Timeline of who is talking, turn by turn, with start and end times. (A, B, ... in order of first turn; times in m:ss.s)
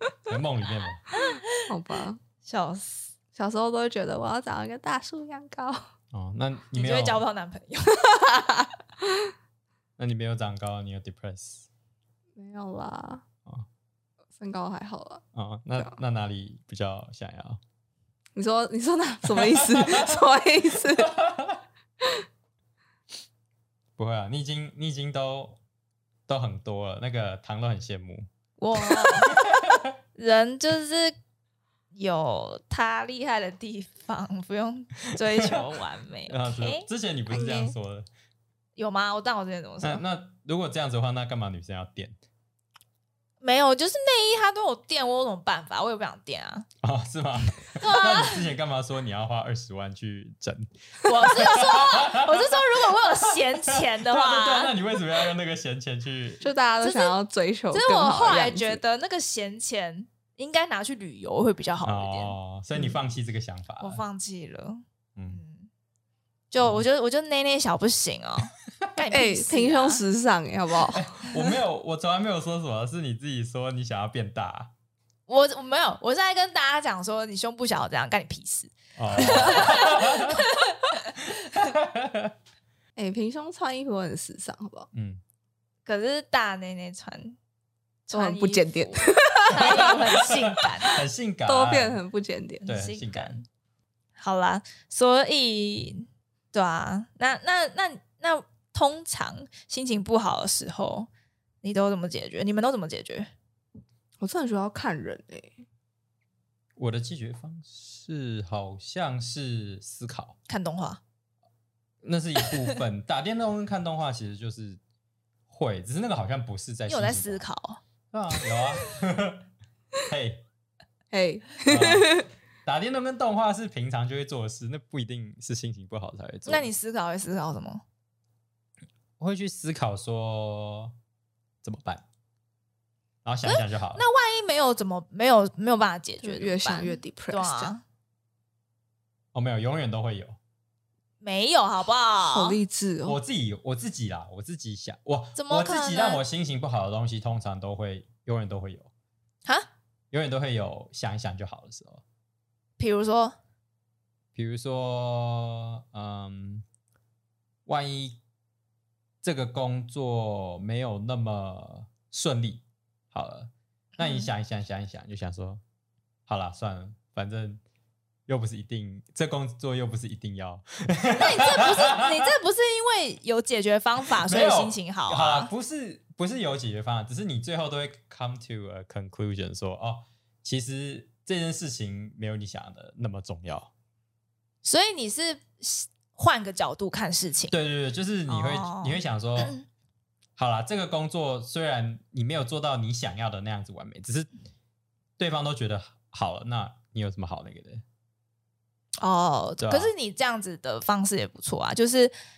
0:00.3-0:01.1 A
0:01.2-0:01.6 B
0:01.7-0:02.2 C
0:02.4-0:03.1 B
0:03.3-0:05.8 C
0:06.1-0:07.2 A
0:06.7-0:08.2 B
0:08.2-0:08.6 C
0:10.0-0:11.7 A
0:12.4-0:13.2 C
0:14.4-0:15.2 C
0:15.3-0:17.6 A
0:18.4-0:21.1 C
0:19.5-0:20.1 A
0:21.0-0:21.6 A
0:24.0-0:25.6 A
0:26.3-0:29.8 A
0:28.6-0:29.4 B
0:30.2-0:31.2 B
0:31.9-0:36.9 B
0:35.3-0:35.6 A
0:36.3-0:38.1 A
0:37.3-0:37.8 C
0:38.8-0:40.0 B
0:39.8-0:42.2 A
0:43.4-0:46.7 B
0:46.8-0:56.5 A
0:47.8-0:48.5 B
0:51.0-0:54.8 B
0:56.4-0:58.8 C
0:56.8-0:57.2 B
0:57.7-1:02.4 B
1:01.8-1:04.0 A
1:03.8-1:05.7 B
1:05.2-1:05.4 A
1:06.5-1:10.0 B
1:09.1-1:11.1 C
1:10.9-1:14.7 A
1:15.3-1:20.9 B
1:19.0-1:20.4 A
1:19.4-1:19.8 C
1:21.2-1:22.3 A
1:23.0-1:24.9 C
1:24.9-1:25.2 A
1:25.9-1:27.4 B
1:28.1-1:31.0 B
1:28.1-1:30.0 C
1:29.5-1:32.0 A
1:31.5-1:32.7 C
1:32.7-1:33.4 A
1:32.7-1:33.5 B
1:34.2-1:41.1 B
1:41.6-1:43.3 B
1:44.2-1:45.6 C
1:46.8-1:50.4 A
1:50.5-1:51.0 B
1:52.0-1:54.8 A
1:55.5-1:57.5 A
1:56.9-1:57.8 B
1:58.1-1:59.5 A
1:58.4-1:58.9 B
2:00.1-2:00.4 A
2:01.1-2:02.3 C
2:01.6-2:06.7 A
2:06.5-2:07.8 B
2:09.2-2:11.0 A
2:11.6-2:12.0 A
2:13.2-2:14.0 A
2:13.4-2:17.8 B
2:16.2-2:17.7 C
2:19.3-2:20.4 A
2:21.2-2:22.6 B
2:22.3-2:23.2 C
2:23.0-2:28.9 A
2:25.4-2:26.2 B
2:30.1-2:32.0 A
2:32.8-2:33.4 B
2:34.4-2:36.6 A
2:37.7-2:38.2 A
2:39.2-2:45.6 A
2:44.0-2:44.3 B
2:46.3-2:47.6 A
2:48.3-2:52.3 A
2:51.2-2:55.5 B
2:54.2-3:03.7 A
3:04.6-3:07.6 B
3:07.5-3:09.6 A
3:08.3-3:09.7 B
3:10.4-3:14.3 A
3:15.2-3:17.8 A
3:19.0-3:22.1 B
3:19.6-3:19.9 A